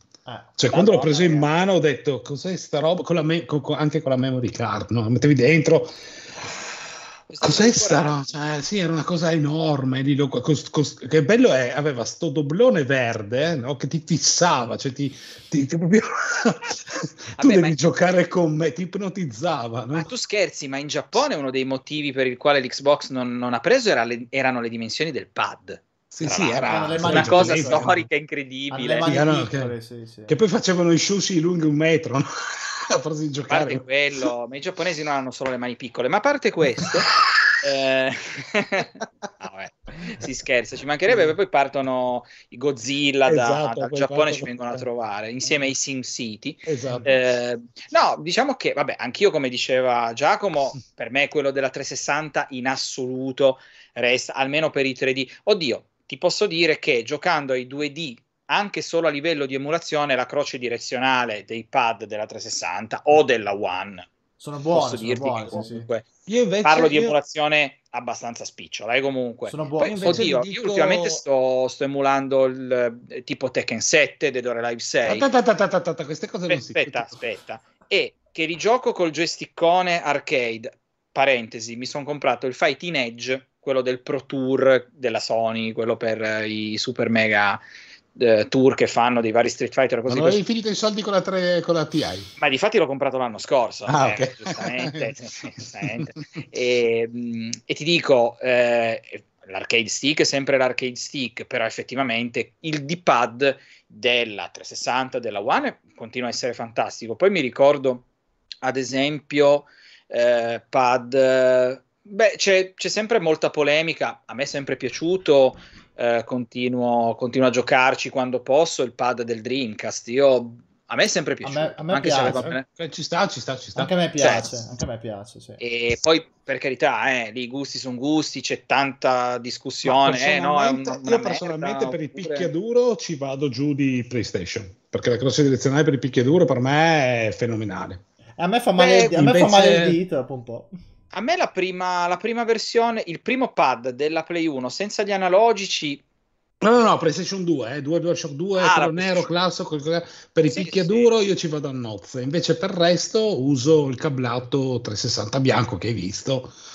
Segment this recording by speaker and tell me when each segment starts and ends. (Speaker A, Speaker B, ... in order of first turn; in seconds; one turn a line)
Speaker A: 0.2-0.5
Speaker B: 0.6-6.6
Speaker C: 0.7-1.5
Speaker C: 7.3-8.3
Speaker B: 7.4-20.1
Speaker C: 17.4-17.8
Speaker C: 20.0-29.1
Speaker B: 26.1-28.1
Speaker A: 26.7-27.9
Speaker A: 28.7-30.4
Speaker B: 29.1-29.7
Speaker B: 30.3-33.9
Speaker C: 33.5-37.1
Speaker B: 36.8-37.6
Speaker C: 37.6-64.1
Speaker B: 43.3-44.9
Speaker B: 46.6-47.1
Speaker A: 64.4-65.9
Speaker C: 64.7-66.1
Speaker B: 66.2-67.2
Speaker C: 66.6-75.3
Speaker A: 69.5-70.3
Speaker B: 69.8-71.2
Speaker B: 75.0-77.2
Speaker C: 76.5-87.6
Speaker C: 88.1-90.4
Speaker B: 90.1-92.3
Speaker C: 92.4-108.0
Speaker B: 93.9-95.2
Speaker B: 95.8-96.4
Speaker C: 108.6-122.6
Speaker A: 121.4-122.5
Speaker B: 122.2-123.9
Speaker A: 123.8-125.6
Speaker C: 124.2-124.4
Speaker C: 125.6-132.5
Speaker B: 129.8-138.0
Speaker A: 138.4-140.7
Speaker C: 138.8-139.1
Speaker B: 138.8-140.0
Speaker C: 141.1-146.0
Speaker B: 146.6-156.5
Speaker C: 148.6-149.2
Speaker C: 150.5-151.1